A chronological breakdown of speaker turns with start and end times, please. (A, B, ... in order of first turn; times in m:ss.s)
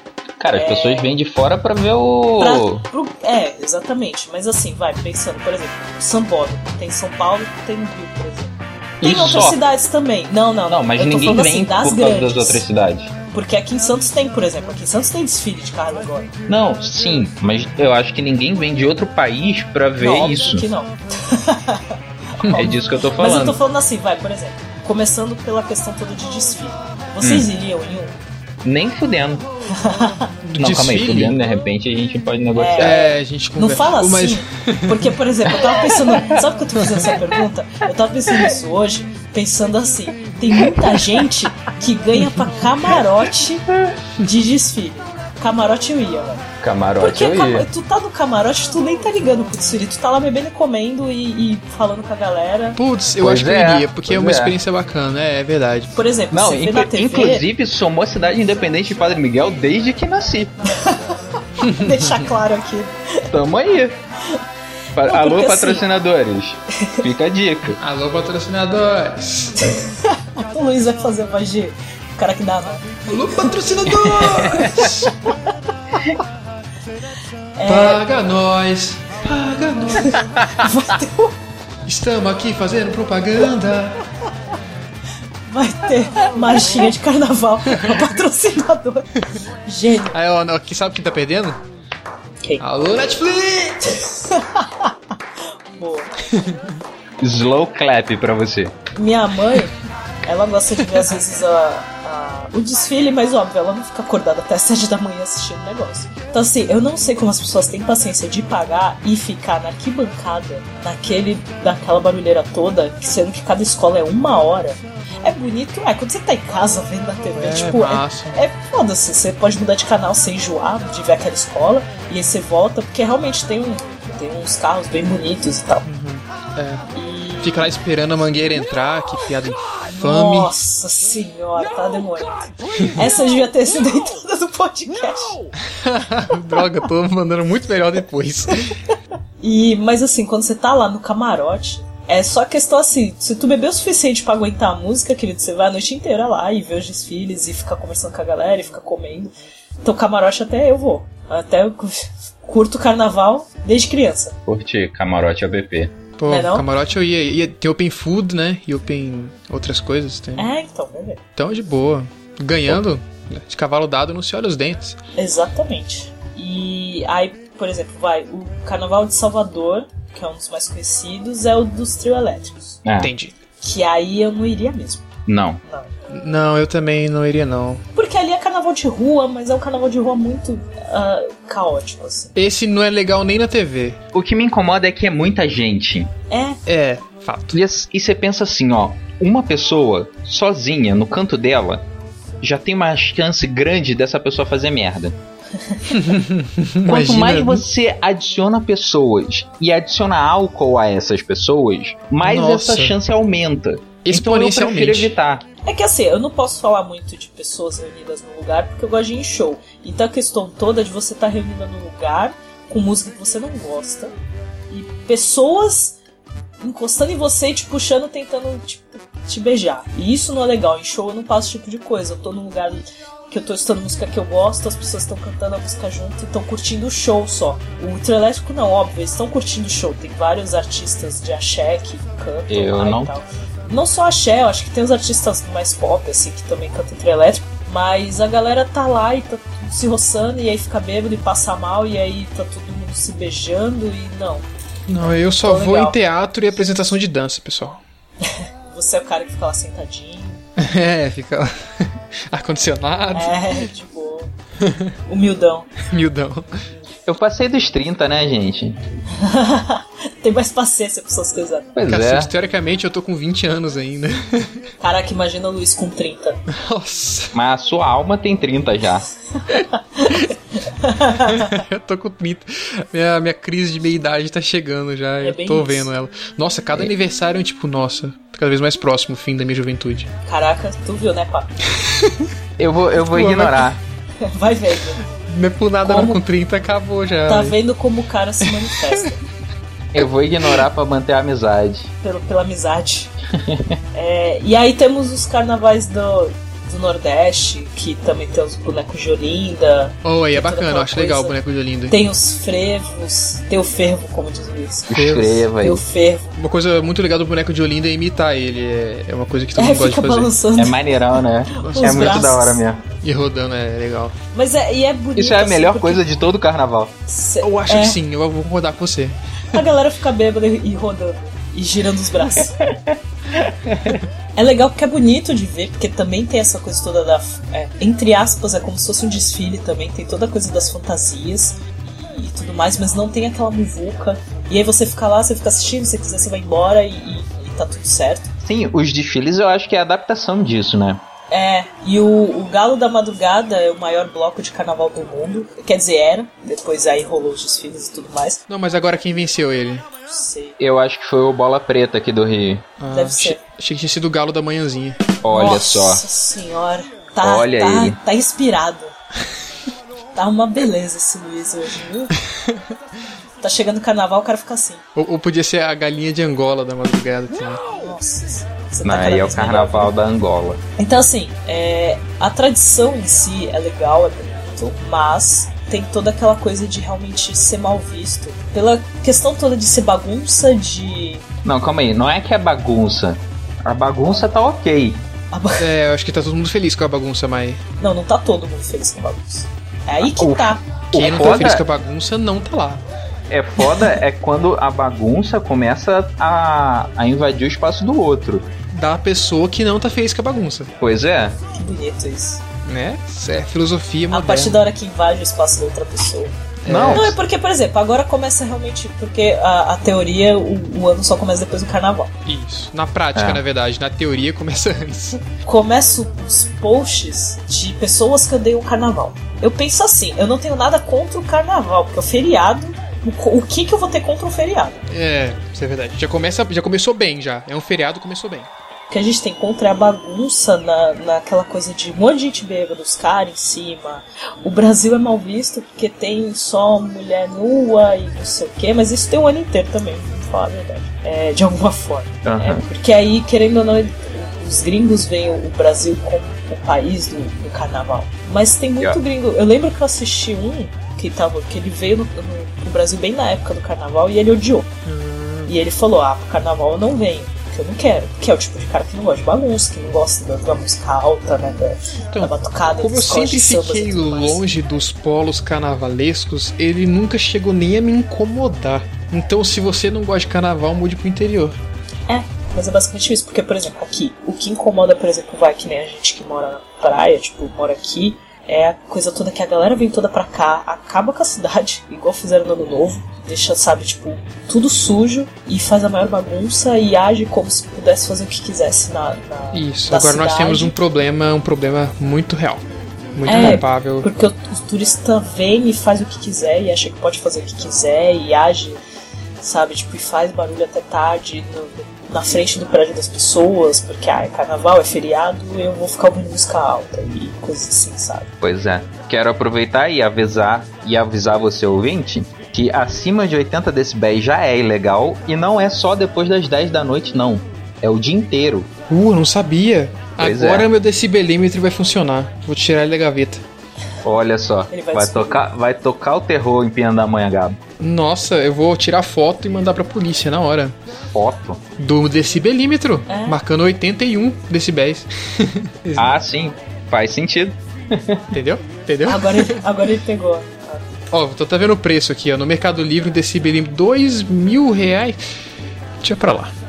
0:00.4-0:02.8 A
0:00.5-0:01.1 B
0:02.4-0:12.6 B
0:09.0-0:09.6 A
0:10.7-0:13.1 A
0:13.3-0:16.3 B
0:16.5-0:20.7 A
0:20.0-0:28.2 B
0:22.4-0:22.7 C
0:22.5-0:23.6 A
0:27.2-0:27.5 A
0:28.6-0:29.4 A
0:29.7-0:30.3 B
0:30.4-0:31.4 C
0:30.6-0:33.0 A
0:32.5-0:46.4 B
0:32.8-0:35.9 C
0:36.8-0:37.1 C
0:42.2-0:42.6 C
0:46.6-0:47.7 A
0:47.0-0:52.8 B
0:52.8-0:55.9 C
0:53.2-0:54.6 A
0:55.9-0:57.4 B
0:56.3-1:00.5 A
1:00.8-1:03.3 B
1:01.7-1:02.1 C
1:03.3-1:04.0 A
1:04.9-1:07.8 A
1:05.0-1:05.8 B
1:06.8-1:07.0 B
1:07.7-1:09.8 C
1:09.6-1:15.5 B
1:13.1-1:15.1 C
1:17.6-1:18.0 B
1:17.7-1:20.2 C
1:20.0-1:21.4 B
1:21.8-1:24.0 C
1:25.5-1:29.1 B
1:27.7-1:28.0 C
1:29.6-1:30.1 B
1:30.1-1:31.6 C
1:32.6-1:34.0 C
1:34.0-1:34.9 B
1:35.8-1:36.1 B
1:36.3-1:36.8 C
1:37.2-1:38.7 A
1:38.9-2:05.9 B
1:57.3-1:58.4 C
2:05.8-2:06.9 C
2:06.9-2:07.7 B
2:07.4-2:10.5 C
2:09.9-2:15.4 B
2:15.7-2:18.7 C
2:19.4-2:34.4 B
2:34.5-2:35.9 A
2:36.2-2:40.5 C
2:36.3-2:36.7 B
2:40.4-2:41.2 B
2:41.4-2:45.0 C
2:45.2-2:52.8 B
2:52.8-2:53.1 A
2:53.0-2:53.3 C
2:53.6-2:55.0 B
2:55.2-2:55.6 A
2:55.6-2:55.9 B
2:56.1-2:57.8 C
2:57.9-3:02.3 B
3:02.4-3:04.0 C
3:04.1-3:06.1 A
3:06.3-3:06.6 B
3:06.6-3:07.6 C
3:07.5-3:11.8 A
3:12.4-3:15.2 A
3:15.6-3:16.0 B
3:15.9-3:17.6 C
3:16.8-3:25.4 A
3:22.2-3:22.9 C
3:24.0-3:25.1 C
3:25.6-3:34.1 B
3:34.7-3:36.0 B
3:36.6-4:04.4 B
3:52.5-3:53.1 A
4:04.9-4:07.8 C
4:05.0-4:06.0 B
4:08.2-4:10.4 B
4:10.6-4:13.7 C
4:13.1-4:14.3 B
4:14.6-4:14.9 C
4:15.1-4:15.7 B
4:15.8-4:16.5 C
4:17.0-4:18.8 A
4:19.1-4:21.7 B
4:21.7-4:22.3 A
4:21.9-4:24.6 C
4:24.8-4:26.4 B
4:26.5-4:27.3 C
4:27.3-4:29.1 A
4:29.5-4:31.6 B
4:30.1-4:30.3 C
4:31.1-4:40.1 C
4:35.2-4:35.9 B
4:40.2-4:41.5 B
4:41.8-4:42.2 C
4:42.6-4:43.8 A
4:43.0-4:43.7 C
4:44.2-4:45.0 B
4:45.2-4:47.6 C
4:45.8-4:46.2 B
4:47.3-4:49.2 B
4:49.9-4:51.9 A
4:52.0-4:53.1 B
4:53.3-4:53.8 A
4:53.9-5:01.3 B
5:00.0-5:01.9 C
5:01.9-5:05.1 B
5:04.9-5:05.4 C
5:04.9-5:05.8 A
5:05.6-5:06.3 B
5:06.4-5:10.3 C
5:09.6-5:12.6 B
5:10.6-5:12.8 A
5:11.6-5:12.4 C
5:13.0-5:14.2 C
5:14.3-5:16.0 B
5:15.2-5:16.9 A
5:17.1-5:18.0 B
5:17.4-5:19.6 C
5:19.5-5:22.6 B
5:22.4-5:24.0 A
5:24.4-5:38.3 B
5:38.4-5:41.0 A
5:41.3-5:48.4 B
5:48.5-5:49.8 C
5:50.0-5:50.6 B
5:50.6-5:52.7 A
5:52.8-5:55.1 C
5:52.9-5:53.4 B
5:55.2-5:56.0 A
5:55.3-5:58.9 B
5:57.2-5:58.0 A
6:00.1-6:02.1 B
6:03.4-6:04.8 B
6:05.0-6:07.6 C
6:07.8-6:09.9 B
6:08.8-6:10.6 A
6:10.8-6:21.2 B
6:21.4-6:25.0 A
6:25.3-6:25.7 B
6:25.6-6:27.6 C
6:27.8-6:31.3 B
6:30.0-6:31.6 A
6:30.9-6:32.8 C
6:33.3-6:38.5 A
6:38.7-6:40.7 C
6:40.8-6:41.4 A
6:41.5-6:42.4 B
6:42.6-6:44.6 C
6:44.1-6:46.3 B
6:46.6-6:47.2 C
6:46.7-6:47.1 A
6:46.8-6:52.1 B
6:52.2-6:55.2 C
6:53.1-6:53.4 A
6:55.4-7:04.8 B
7:04.9-7:08.5 C
7:08.9-7:34.7 B
7:22.2-7:22.6 A
7:34.8-7:35.5 C
7:35.5-7:44.4 B
7:42.1-7:51.6 C
7:52.1-8:10.7 B
8:09.5-8:12.6 C
8:13.2-8:14.1 C
8:13.2-8:18.8 B
8:19.4-8:28.3 B
8:28.4-8:38.7 A
8:38.9-8:43.4 C
8:40.2-8:40.7 A
8:44.0-8:47.6 A
8:44.7-8:45.4 B
8:47.8-8:50.8 C
8:51.1-8:51.6 A
8:51.8-8:56.1 C
8:53.1-8:53.4 B
8:56.0-8:58.2 A
8:58.3-8:59.6 C
8:59.0-9:01.0 B
9:01.1-9:05.2 C
9:06.0-9:06.5 C